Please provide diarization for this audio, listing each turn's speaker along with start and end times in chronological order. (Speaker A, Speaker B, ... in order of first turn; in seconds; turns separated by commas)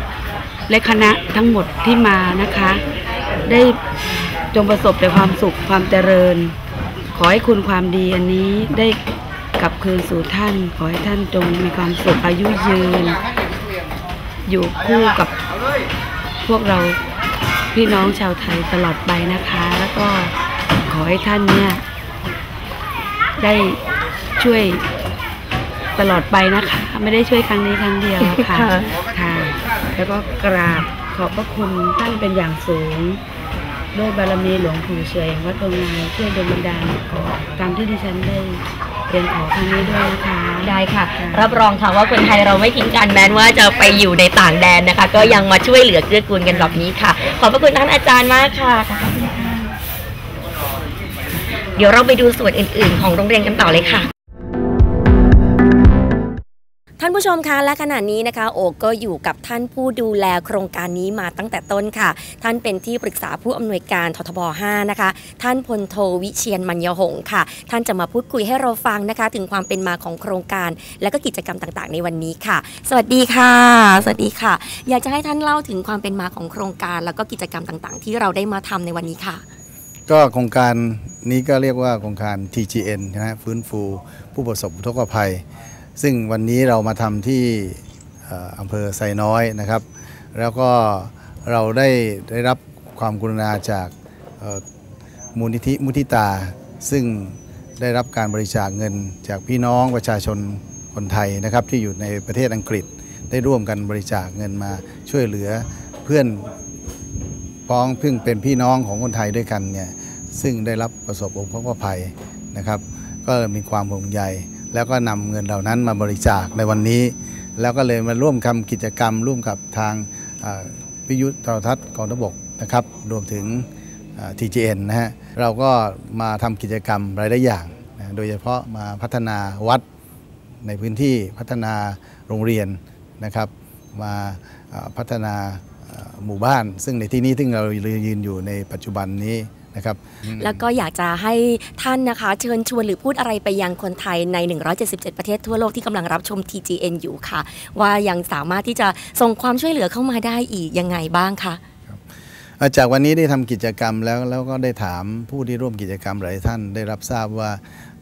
Speaker A: 0.7-2.8, Speaker A: 3.5-3.8, Speaker A: 4.5-6.5, Speaker A: 7.1-9.0, Speaker A: 9.6-13.2, Speaker A: 14.4-15.3, Speaker A: 16.4-17.0, Speaker A: 17.7-20.3, Speaker A: 20.9-21.8, Speaker A: 23.4-23.8, Speaker A: 24.4-24.8, Speaker A: 26.0-33.2, Speaker B: 28.2-28.9, Speaker A: 33.9-41.5, Speaker B: 40.6-49.7, Speaker A: 45.1-45.4, Speaker A: 46.5-46.8, Speaker B: 51.7-54.1, Speaker B: 57.0-79.4, Speaker C: 80.1-85.4, Speaker C: 86.0-89.8, Speaker C: 90.3-94.6, Speaker C: 95.3-106.5, Speaker C: 107.7-129.8, Speaker C: 130.6-140.6, Speaker B: 140.4-151.6, Speaker C: 152.6-157.6